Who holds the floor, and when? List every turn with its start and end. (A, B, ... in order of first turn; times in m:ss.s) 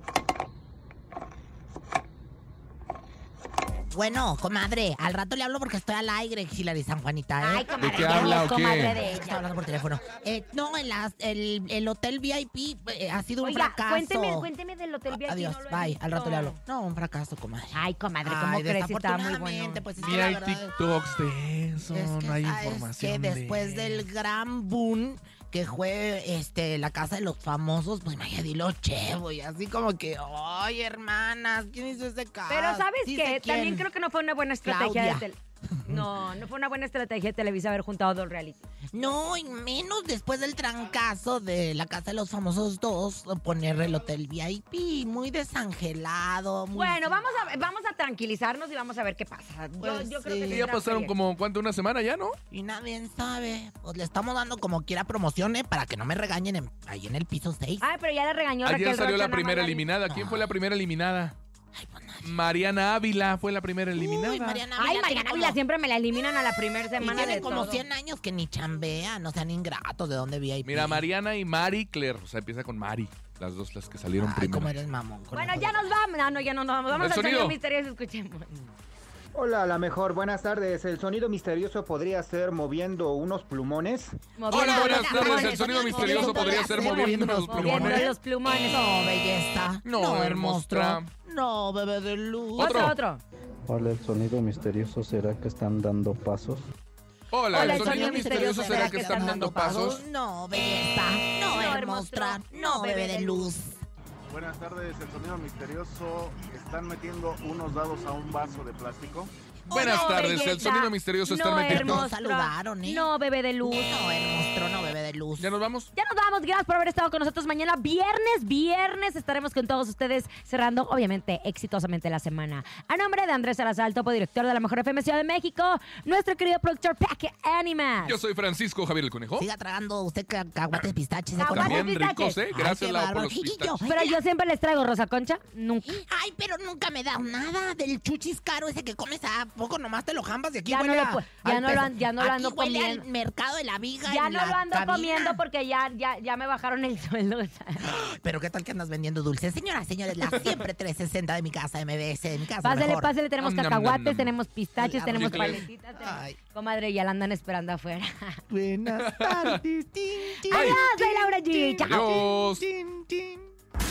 0:03.9-0:14.5 A
0:07.4-0:09.4 B
0:07.8-0:09.0 C
0:13.4-0:16.6 B
0:15.1-0:20.8 A
0:17.7-0:19.8 B
0:20.0-0:24.0 C
0:21.9-0:33.9 A
0:32.5-0:38.6 B
0:34.6-0:36.1 A
0:38.9-0:47.3 A
0:46.7-0:51.1 B
0:49.8-0:50.7 A
0:50.5-0:52.4 C
0:52.5-0:57.8 A
0:57.8-0:59.8 B
0:58.6-1:01.3 C
1:00.0-1:00.5 A
1:01.7-1:02.3 A
1:02.2-1:04.6 C
1:03.9-1:05.6 A
1:04.8-1:07.8 B
1:07.0-1:11.0 A
1:10.6-1:14.7 C
1:14.2-1:15.9 A
1:15.3-1:18.5 B
1:16.9-1:17.6 C
1:19.3-1:24.2 D
1:24.4-1:28.8 B
1:24.5-1:32.9 A
1:24.5-1:28.1 C
1:29.8-1:31.1 C
1:32.6-1:32.9 C
1:32.6-1:33.2 B
1:33.7-1:36.7 E
1:37.3-1:40.0 C
1:37.5-1:43.8 A
1:37.5-1:40.0 B
1:41.5-1:43.5 B
1:44.3-1:49.3 F
1:49.7-1:50.7 A
1:49.7-1:52.0 C
1:49.8-1:53.9 B
1:51.6-1:53.1 A
1:53.6-1:55.5 A
1:55.4-1:55.9 C
1:56.0-2:08.2 B
2:08.0-2:09.5 C
2:09.4-2:11.9 A
2:11.4-2:12.4 B
2:11.5-2:13.8 C
2:12.5-2:14.2 A
2:13.9-2:16.0 B
2:15.8-2:25.4 A
2:20.7-2:23.0 B
2:24.0-2:27.8 B
2:27.8-2:33.1 A
2:32.6-2:38.4 B
2:33.4-2:34.3 C
2:34.8-2:36.4 A
2:35.1-2:35.6 C
2:38.5-2:43.5 A
2:39.0-2:39.6 C
2:40.5-2:42.2 B
2:40.5-2:40.8 C
2:41.8-2:42.6 C